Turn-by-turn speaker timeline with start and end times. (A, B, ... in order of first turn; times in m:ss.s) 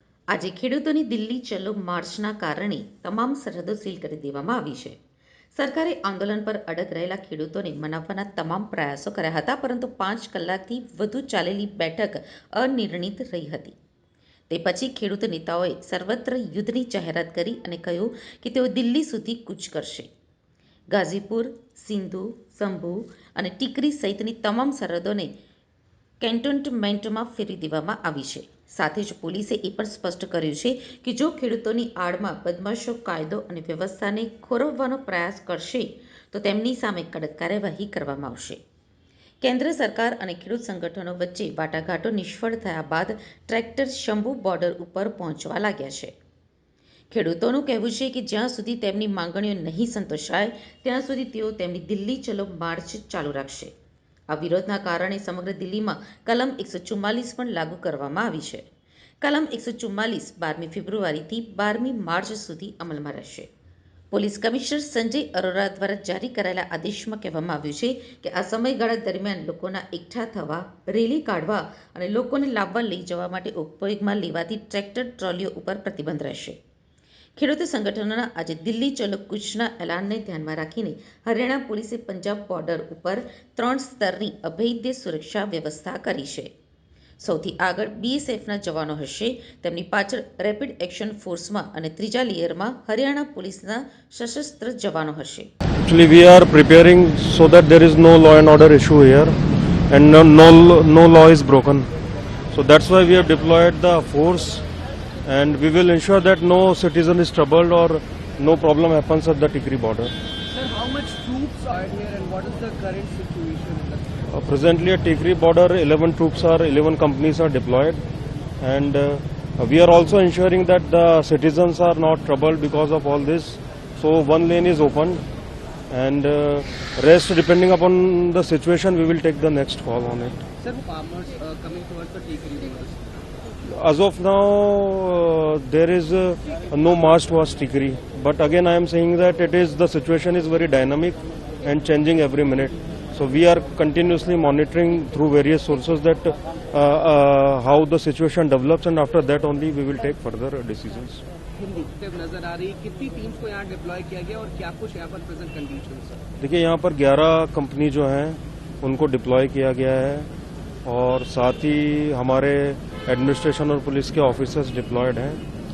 0:00.3-0:05.0 A
0:05.6-0:13.8 A
0:14.5-0:20.1 A
0:20.9-0:25.3 A
0:26.2-0:38.6 A
0:39.4-0:46.1 A
0:47.1-0:53.7 A
0:54.3-0:58.6 A
0:59.2-1:03.5 A
1:04.1-1:16.6 A
1:17.4-1:26.5 A
1:27.2-1:35.5 A
1:35.8-1:39.3 B
1:39.9-1:41.9 B
1:42.5-1:44.6 B
1:45.3-1:50.1 B
1:50.5-1:54.3 C
1:54.3-1:58.0 B
1:58.6-2:05.2 B
2:05.9-2:10.4 B
2:10.6-2:13.3 C
2:13.6-2:31.2 B
2:31.6-2:36.2 C
2:36.4-2:40.3 B
2:40.8-2:45.4 B